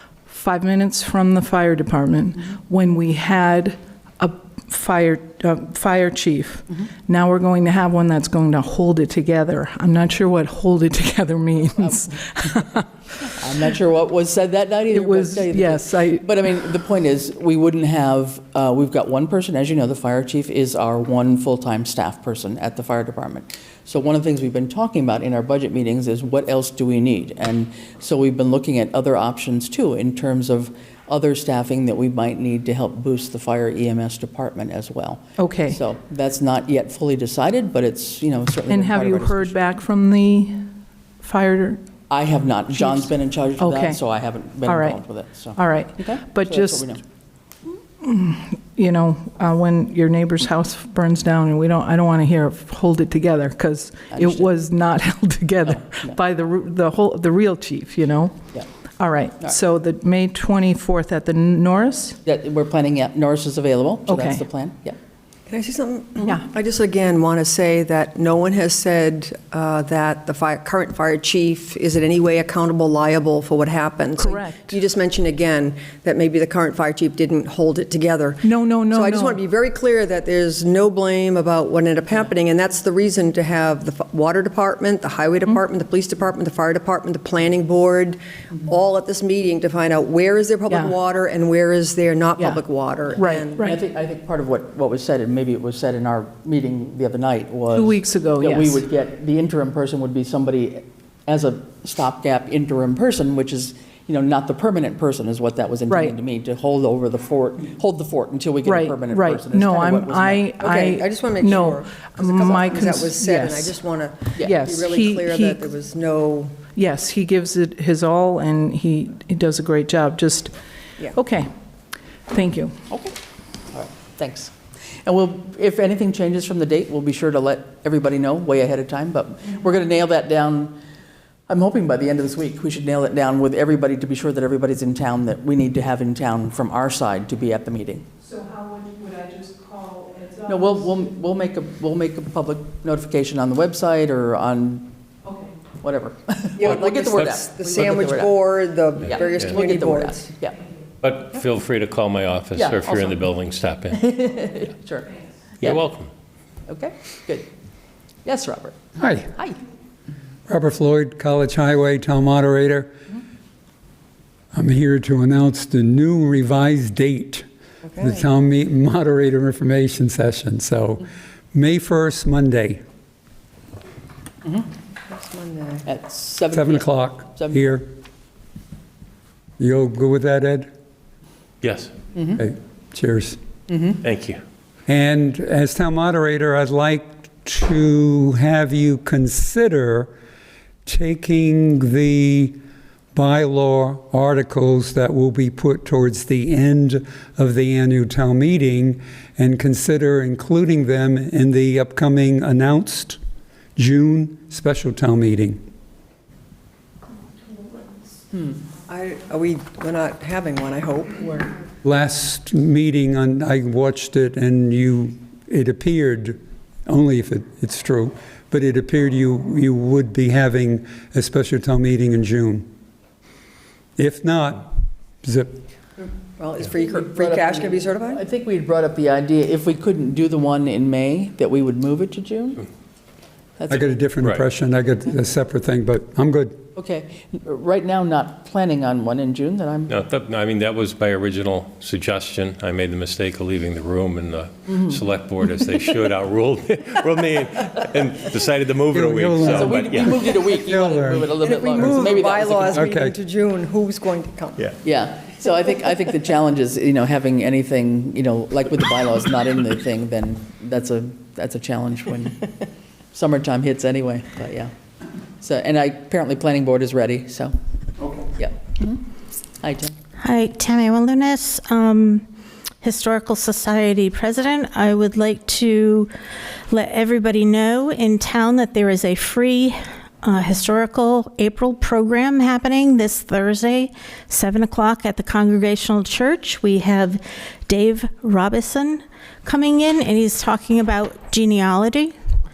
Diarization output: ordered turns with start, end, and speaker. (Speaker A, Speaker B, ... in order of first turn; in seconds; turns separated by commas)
Speaker A: 0.3-13.3, Speaker B: 13.3-39.5, Speaker A: 14.9-16.3, Speaker A: 35.4-35.8, Speaker A: 38.7-40.7, Speaker A: 41.2-41.8, Speaker B: 42.1-47.0, Speaker A: 43.6-44.0, Speaker A: 44.6-45.0, Speaker A: 45.5-46.9, Speaker A: 48.0-58.4, Speaker B: 54.1-54.5, Speaker B: 55.7-56.2, Speaker A: 59.0-62.2, Speaker B: 62.2-65.0, Speaker A: 64.1-64.5, Speaker C: 65.5-93.8, Speaker A: 74.2-74.8, Speaker A: 78.4-79.4, Speaker A: 93.2-93.8, Speaker B: 93.2-110.5, Speaker A: 97.7-98.8, Speaker A: 105.9-106.2, Speaker A: 108.7-113.7, Speaker C: 110.6-116.6, Speaker A: 114.4-115.6, Speaker A: 116.7-120.5, Speaker A: 121.1-121.5, Speaker A: 122.3-122.8, Speaker B: 122.9-123.2, Speaker B: 123.7-130.8, Speaker B: 131.5-138.1, Speaker A: 138.2-141.1, Speaker B: 140.5-144.9, Speaker B: 145.8-148.4, Speaker C: 146.6-150.3, Speaker B: 149.0-150.6, Speaker D: 149.2-149.5, Speaker D: 151.0-154.0, Speaker B: 152.6-153.2, Speaker B: 153.9-155.8, Speaker D: 155.6-156.1, Speaker B: 156.7-157.5, Speaker B: 158.2-159.6, Speaker E: 159.0-159.3, Speaker E: 160.5-162.9, Speaker E: 164.5-167.5, Speaker C: 167.9-168.2, Speaker E: 168.0-172.8, Speaker C: 175.1-175.9, Speaker B: 175.8-177.8, Speaker E: 176.5-177.9, Speaker E: 179.6-180.7, Speaker D: 181.6-181.9, Speaker B: 182.2-182.4, Speaker E: 182.4-183.4, Speaker B: 183.7-184.0, Speaker D: 184.0-184.4, Speaker E: 184.9-190.1, Speaker E: 190.9-192.6, Speaker E: 193.1-203.2, Speaker E: 203.8-205.6, Speaker C: 208.9-211.5, Speaker E: 211.8-222.7, Speaker E: 224.0-224.7, Speaker E: 225.2-225.6, Speaker C: 226.4-228.2, Speaker B: 226.8-232.7, Speaker B: 233.6-233.9, Speaker E: 233.7-236.6, Speaker B: 236.8-240.0, Speaker D: 239.9-250.4, Speaker B: 244.7-245.0, Speaker E: 248.9-252.1, Speaker B: 249.4-252.9, Speaker C: 251.4-254.7, Speaker E: 252.7-253.2, Speaker B: 254.8-262.5, Speaker B: 263.1-264.7, Speaker B: 265.4-267.5, Speaker B: 268.4-269.0, Speaker B: 269.6-269.9, Speaker F: 270.2-272.2, Speaker F: 272.8-276.1, Speaker F: 276.7-292.1